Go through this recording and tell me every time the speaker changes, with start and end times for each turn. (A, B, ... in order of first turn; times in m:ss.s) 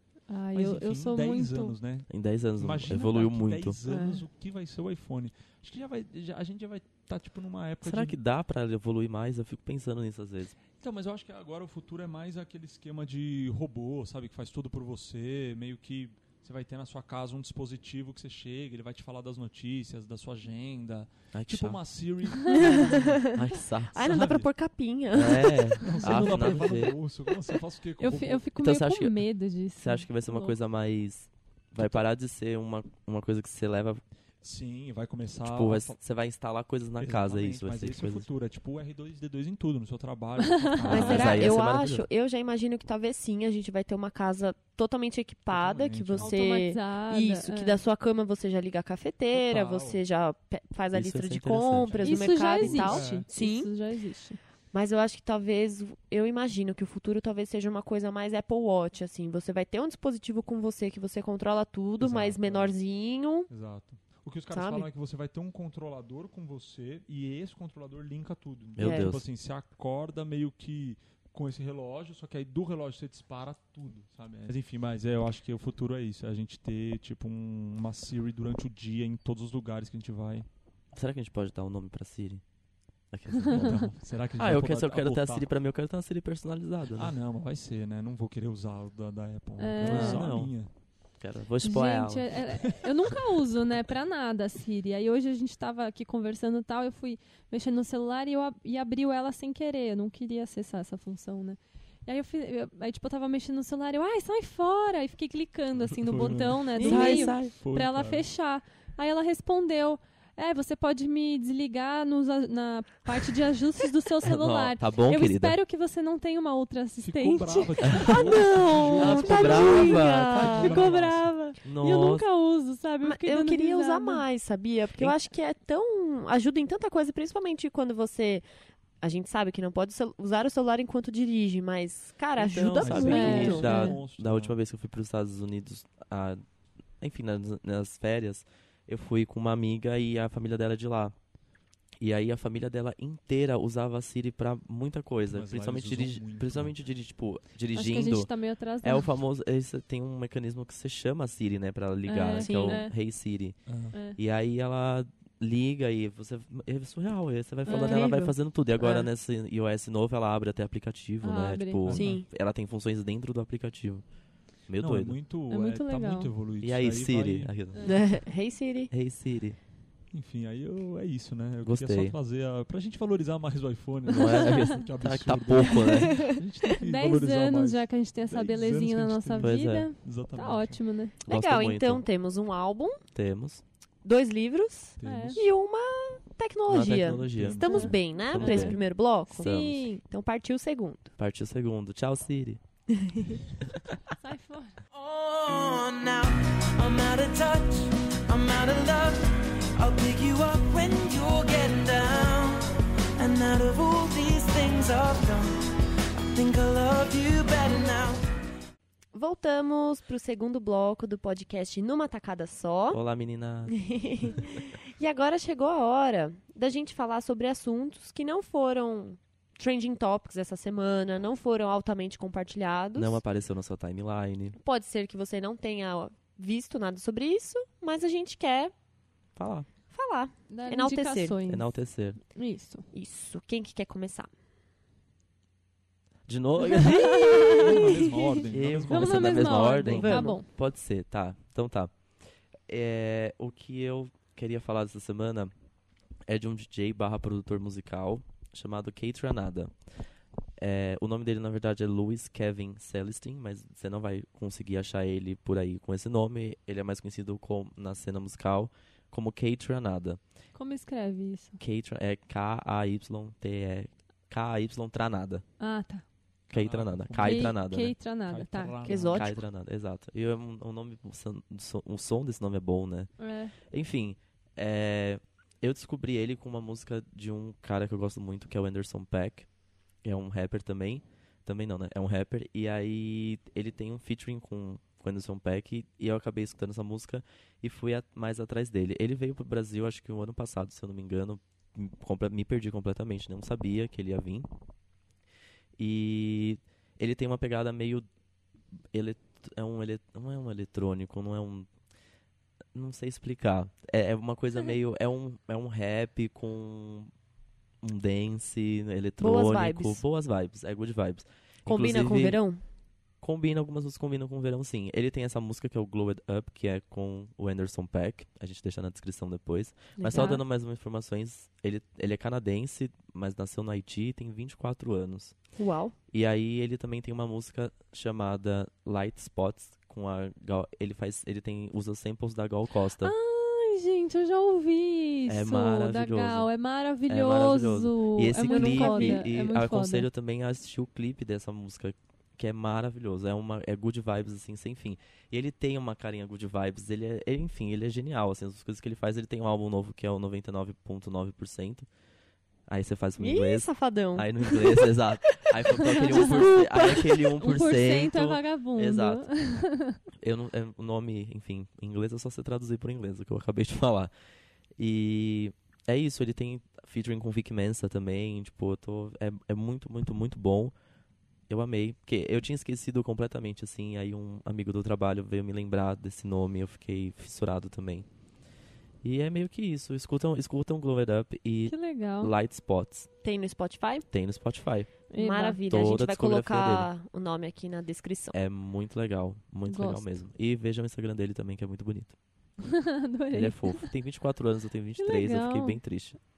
0:00.3-0:01.7 A
0:00.5-0:02.1 B
0:02.1-0:03.8 C
0:02.6-0:08.2 B
0:03.9-0:04.2 A
0:07.8-0:10.6 C
0:10.8-0:23.3 B
0:21.3-0:21.8 C
0:22.5-0:26.0 D
0:23.2-0:24.0 C
0:24.0-0:24.5 B
0:25.1-0:26.9 C
0:25.8-0:28.5 B
0:26.0-0:26.4 A
0:28.0-0:30.6 A
0:28.6-0:29.2 C
0:29.8-0:34.0 C
0:34.4-0:36.0 B
0:35.4-0:38.3 C
0:37.0-0:41.6 B
0:40.5-0:41.4 A
0:40.8-0:42.1 C
0:40.9-0:53.7 D
0:45.5-0:46.4 B
0:46.2-0:47.8 A
0:49.3-0:50.0 B
0:50.9-0:52.7 C
0:52.0-0:54.4 A
0:52.7-0:53.3 B
0:54.7-1:03.5 D
1:02.0-1:02.7 B
1:03.5-1:20.5 B
1:04.5-1:04.9 D
1:08.8-1:09.2 C
1:08.8-1:09.1 D
1:20.9-1:22.4 C
1:23.1-1:27.1 C
1:23.5-1:25.5 B
1:26.9-1:30.7 B
1:29.6-1:30.3 A
1:29.8-1:30.5 C
1:31.2-1:32.4 C
1:31.6-1:58.5 A
1:46.0-1:48.2 B
1:46.8-1:47.5 C
1:54.2-1:55.6 C
1:57.0-2:01.3 B
1:58.1-2:00.7 D
1:59.0-2:00.8 C
2:00.4-2:04.2 A
2:01.6-2:02.3 C
2:03.0-2:08.4 D
2:09.0-2:13.7 D
2:12.4-2:16.4 C
2:12.8-2:14.6 B
2:13.0-2:14.0 A
2:17.0-2:21.1 C
2:22.0-2:28.3 C
2:25.3-2:26.8 B
2:27.7-2:29.1 A
2:28.8-2:33.6 C
2:32.1-2:32.9 A
2:32.4-2:32.8 D
2:33.6-2:34.0 B
2:33.9-2:34.2 A
2:34.2-2:44.0 C
2:37.6-2:38.2 A
2:37.7-2:39.1 D
2:41.2-2:41.9 A
2:41.8-2:42.2 B
2:41.9-2:42.2 D
2:44.7-2:45.2 C
2:44.8-2:47.5 B
2:45.5-2:46.3 A
2:46.6-2:47.8 C
2:47.7-2:48.0 A
2:47.8-2:48.9 D
2:48.9-2:49.6 C
2:50.1-3:00.8 B
2:51.6-2:52.1 C
2:54.1-2:56.3 C
2:54.2-2:54.7 A
2:56.2-3:01.2 A
2:59.4-2:59.9 C
3:01.2-3:02.0 C
3:01.2-3:03.0 D
3:03.1-3:03.6 C
3:04.0-3:11.1 D
3:05.0-3:05.4 B
3:05.0-3:05.4 A
3:06.7-3:08.8 C
3:07.3-3:07.9 B
3:07.6-3:10.0 A
3:09.4-3:09.8 C
3:11.2-3:12.6 C
3:12.9-3:13.4 D
3:14.2-3:14.8 A
3:14.9-3:25.5 E
3:26.1-3:28.2 E
3:29.1-3:33.0 D
3:32.9-3:34.4 C
3:33.7-3:43.2 D
3:42.9-3:44.6 C
3:44.6-3:48.7 D
3:49.4-3:49.6 C
3:49.9-3:51.4 D
3:50.5-3:51.8 A
3:51.4-3:52.2 C
3:52.3-3:52.8 A
3:52.9-3:54.3 D
3:56.3-4:01.9 C
3:56.7-3:57.9 A
3:56.8-3:57.7 D
3:57.5-4:00.0 B
3:58.9-4:00.5 A
3:59.8-4:00.4 D
4:02.7-4:05.5 C
4:06.3-4:09.7 C
4:10.6-4:20.2 C
4:20.5-4:21.6 A
4:21.6-4:25.4 C
4:25.6-4:26.0 A
4:26.5-4:27.9 C
4:26.5-4:27.6 B
4:27.2-4:29.3 A
4:28.3-4:29.2 B
4:28.8-4:29.4 D
4:29.1-4:33.1 C
4:33.2-4:33.5 A
4:33.7-4:39.5 C
4:40.0-4:54.5 C
4:55.8-4:58.0 C
4:58.9-5:01.7 C
5:02.7-5:07.1 C
5:07.8-5:12.4 C
5:09.2-5:10.0 D
5:11.6-5:12.6 D
5:13.2-5:25.4 C
5:20.0-5:20.4 D
5:20.1-5:20.4 A
5:25.6-5:25.9 D
5:26.1-5:33.1 C
5:33.0-5:40.1 A
5:35.3-5:36.5 C
5:37.1-5:51.9 C
5:38.4-5:39.2 D
5:52.7-5:59.2 C
5:53.2-5:57.3 D
5:56.0-5:56.5 A
5:57.4-6:00.0 A
6:00.2-6:04.1 C
6:04.8-6:10.7 C
6:11.5-6:18.0 C
6:19.0-6:23.1 C
6:21.7-6:22.3 A
6:23.2-6:24.0 D
6:24.1-6:25.0 C
6:25.1-6:25.6 A
6:25.2-6:28.4 D
6:25.7-6:26.9 C
6:28.3-6:32.1 C
6:29.6-6:30.1 A
6:32.6-6:33.9 A
6:33.3-6:36.2 C
6:35.0-6:35.8 A